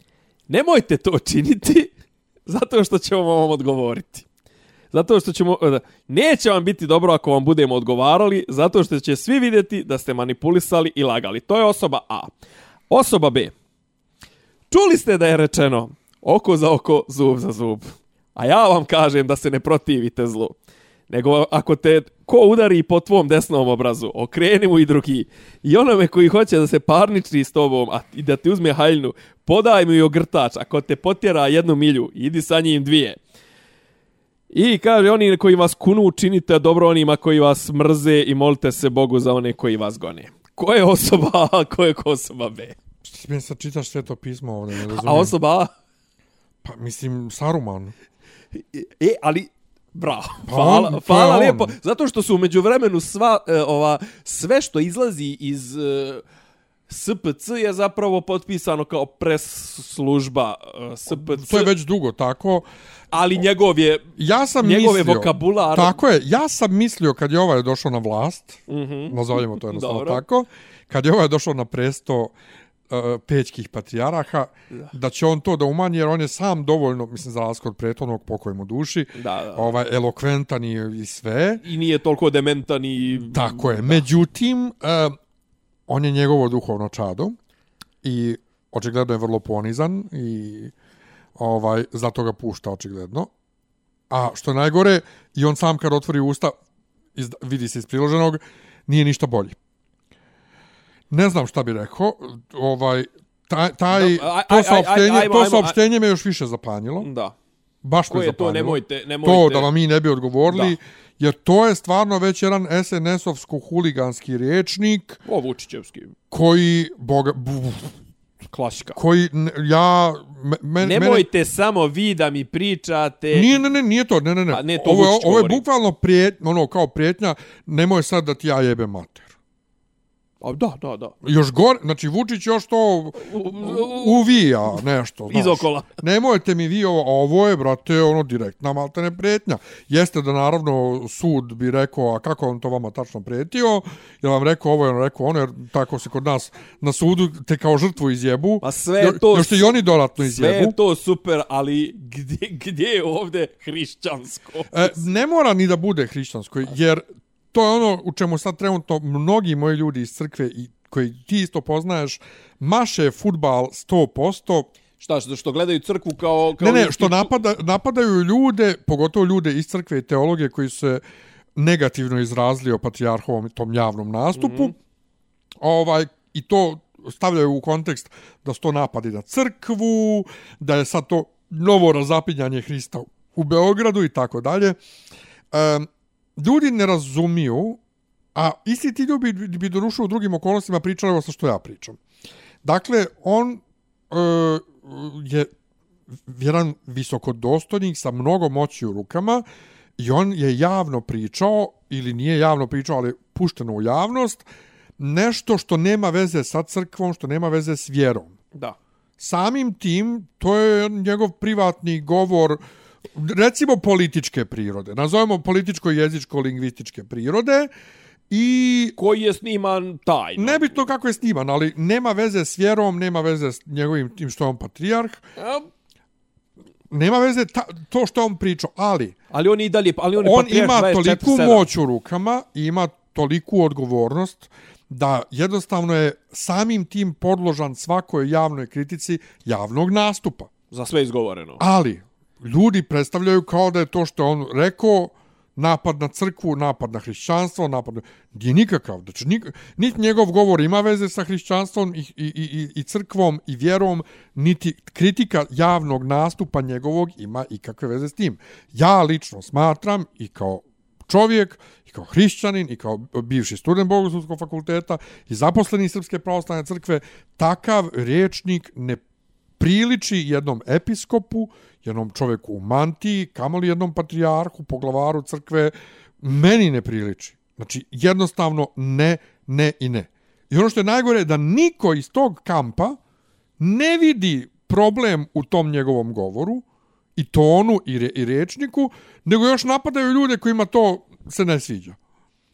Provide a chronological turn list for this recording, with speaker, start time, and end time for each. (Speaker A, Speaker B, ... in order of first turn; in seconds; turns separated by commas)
Speaker A: 0.5-1.9, Speaker A: 2.5-4.2, Speaker A: 4.9-12.3, Speaker A: 12.9-13.5, Speaker A: 14.7-20.6, Speaker A: 21.1-33.2, Speaker A: 34.5-42.8, Speaker B: 43.0-45.4, Speaker A: 44.7-45.7, Speaker B: 46.6-47.9, Speaker A: 48.5-56.2, Speaker B: 50.5-51.7, Speaker A: 56.9-61.7, Speaker B: 61.1-62.6, Speaker A: 63.1-64.1, Speaker B: 64.2-72.3, Speaker A: 64.6-65.9, Speaker A: 68.7-70.2, Speaker B: 72.9-81.6, Speaker A: 79.1-79.7, Speaker A: 81.6-84.0, Speaker B: 83.2-85.1, Speaker B: 85.9-87.4, Speaker B: 88.0-90.7, Speaker B: 91.4-93.3, Speaker B: 94.1-96.5, Speaker B: 97.2-99.5, Speaker B: 101.1-107.1, Speaker A: 103.9-105.8, Speaker A: 107.0-107.3, Speaker B: 107.8-115.2, Speaker A: 108.1-109.7, Speaker A: 110.5-110.8, Speaker A: 115.2-116.1, Speaker B: 116.3-117.9, Speaker A: 118.5-119.0, Speaker B: 118.9-121.2, Speaker A: 120.8-123.5, Speaker B: 123.3-129.3, Speaker A: 124.5-125.6, Speaker A: 130.4-131.1, Speaker B: 131.2-150.8, Speaker A: 133.2-134.2, Speaker A: 135.3-135.9, Speaker A: 148.6-155.0, Speaker B: 154.7-164.7, Speaker A: 165.0-167.3, Speaker B: 166.6-171.0, Speaker B: 171.6-174.7, Speaker A: 174.4-174.7, Speaker B: 175.6-184.8, Speaker B: 185.5-187.8, Speaker B: 188.3-192.0, Speaker B: 192.6-195.5, Speaker B: 196.3-199.4, Speaker B: 200.0-204.4, Speaker B: 205.0-208.3, Speaker B: 209.2-212.6, Speaker B: 213.1-217.7, Speaker B: 218.3-218.9, Speaker A: 219.0-220.9, Speaker B: 220.4-225.2, Speaker A: 225.4-225.7, Speaker B: 226.9-229.1, Speaker A: 229.3-231.7, Speaker B: 230.2-240.5, Speaker A: 240.7-241.6, Speaker B: 241.6-269.0, Speaker B: 269.6-283.0, Speaker B: 283.6-286.6, Speaker B: 287.1-292.0